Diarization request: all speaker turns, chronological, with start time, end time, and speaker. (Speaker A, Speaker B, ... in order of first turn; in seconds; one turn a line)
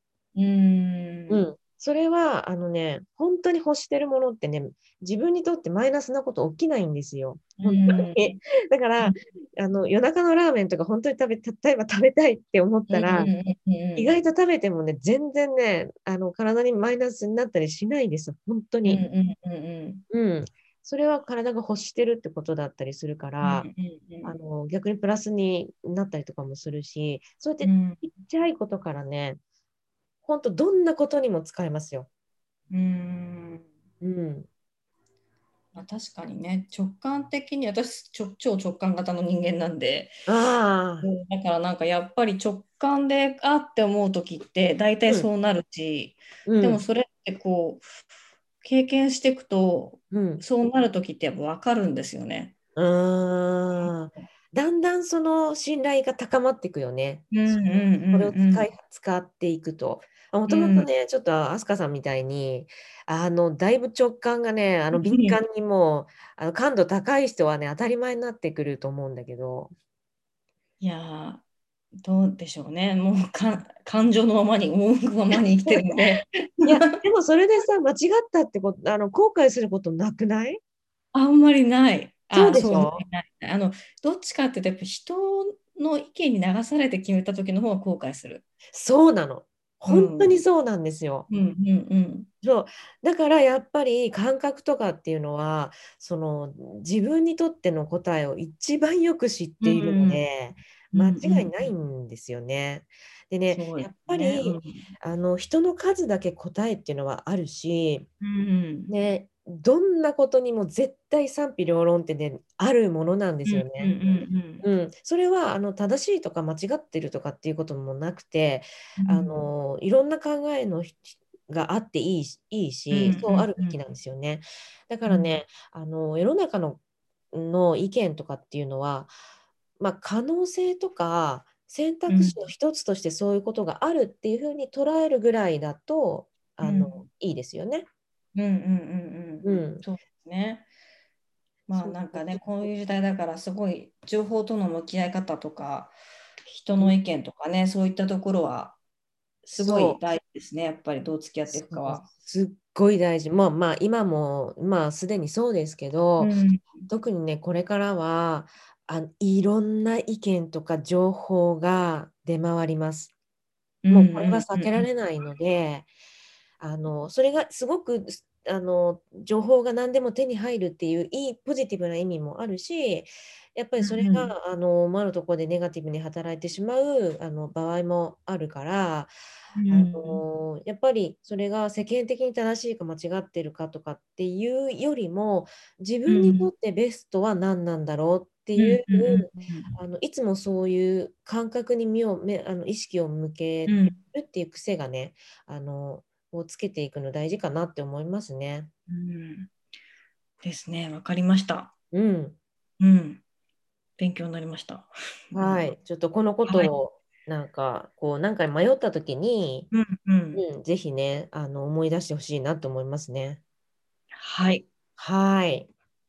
Speaker A: 0.3-1.5
Speaker B: 1.3-13.3
Speaker A: 7.6-8.4
Speaker A: 12.9-14.1
Speaker B: 14.0-19.0
Speaker A: 18.9-20.0
Speaker B: 20.1-23.7
Speaker A: 23.4-24.4
Speaker B: 24.2-29.4
Speaker A: 27.6-28.1
Speaker B: 30.2-32.1
Speaker A: 32.7-33.7
Speaker B: 34.0-34.5
Speaker A: 35.7-40.2
Speaker B: 40.3-41.1
Speaker A: 41.0-47.9
Speaker B: 46.5-46.8
Speaker A: 48.6-52.5
Speaker B: 50.1-50.4
Speaker B: 52.8-69.7
Speaker A: 53.8-54.2
Speaker A: 57.3-58.7
Speaker A: 60.5-60.9
Speaker A: 64.9-65.4
Speaker A: 70.8-71.4
Speaker A: 72.0-77.0
Speaker B: 75.3-76.0
Speaker B: 76.7-80.6
Speaker A: 81.1-88.4
Speaker B: 82.3-83.0
Speaker B: 88.7-91.3
Speaker A: 89.9-90.4
Speaker A: 91.3-92.3
Speaker B: 92.4-108.1
Speaker A: 99.6-100.2
Speaker A: 100.9-101.7
Speaker A: 103.5-104.9
Speaker A: 108.2-108.9
Speaker B: 108.9-114.0
Speaker A: 113.5-114.7
Speaker B: 114.6-126.8
Speaker A: 119.0-119.5
Speaker A: 122.9-123.8
Speaker A: 125.1-125.3
Speaker B: 127.3-129.1
Speaker B: 129.8-137.9
Speaker A: 132.1-132.5
Speaker A: 136.6-137.0
Speaker A: 138.3-140.7
Speaker B: 139.4-139.8
Speaker A: 141.7-148.8
Speaker B: 141.7-142.7
Speaker A: 149.4-152.1
Speaker B: 149.5-150.0
Speaker B: 151.5-156.3
Speaker A: 156.2-156.9
Speaker B: 156.9-163.1
Speaker A: 163.8-164.8
Speaker B: 163.9-165.9
Speaker B: 166.6-179.1
Speaker A: 173.8-174.3
Speaker A: 179.6-180.2
Speaker B: 179.7-198.7
Speaker A: 186.1-186.5
Speaker A: 188.6-189.8
Speaker A: 193.7-194.0
Speaker A: 198.9-199.5
Speaker A: 200.4-201.7
Speaker B: 201.9-202.4
Speaker A: 202.8-203.2
Speaker A: 204.0-205.7
Speaker B: 205.3-209.7
Speaker A: 206.5-206.8
Speaker A: 209.7-210.4
Speaker B: 210.3-213.4
Speaker A: 214.1-214.7
Speaker B: 215.0-215.7